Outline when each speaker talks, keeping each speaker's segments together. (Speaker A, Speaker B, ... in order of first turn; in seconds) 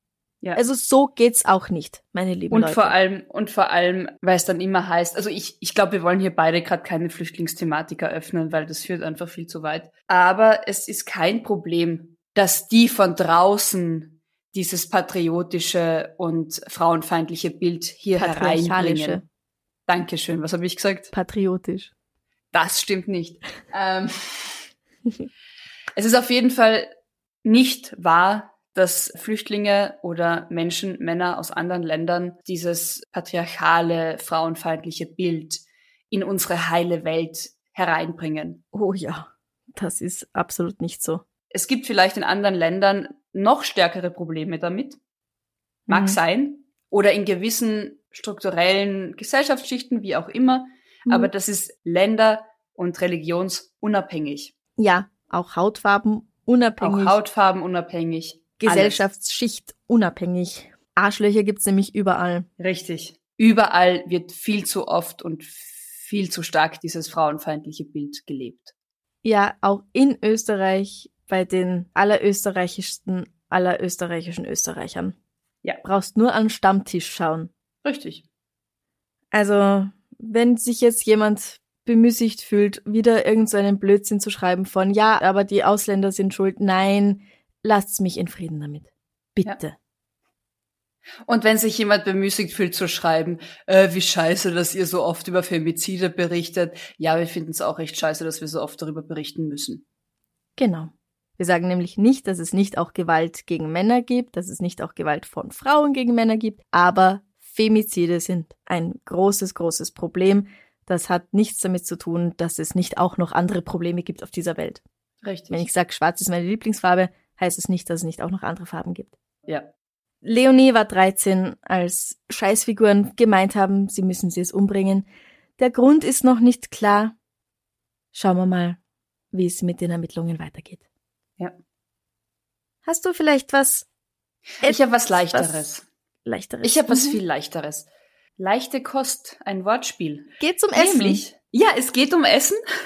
Speaker A: 0.6-2.9, 18.1-19.2, 21.1-21.9, 38.7-41.2, 45.9-46.2, 51.1-51.3, 54.8-57.2, 58.6-62.5, 69.2-75.1, 75.8-77.5, 79.3-89.8, 100.6-114.8, 115.5-119.1, 120.2-125.1, 125.6-127.1, 128.1-128.8, 129.3-130.8, 132.8-133.9, 134.6-135.7, 136.2-137.2, 140.4-141.2
Speaker B: 2.5-19.2, 19.9-21.1, 22.5-24.6, 25.9-26.9, 27.4-38.6, 41.5-45.0, 45.9-54.5, 56.8-59.0, 62.6-68.7, 77.8-78.2, 91.2-99.8, 115.2-115.7, 134.6-135.9, 136.6-142.6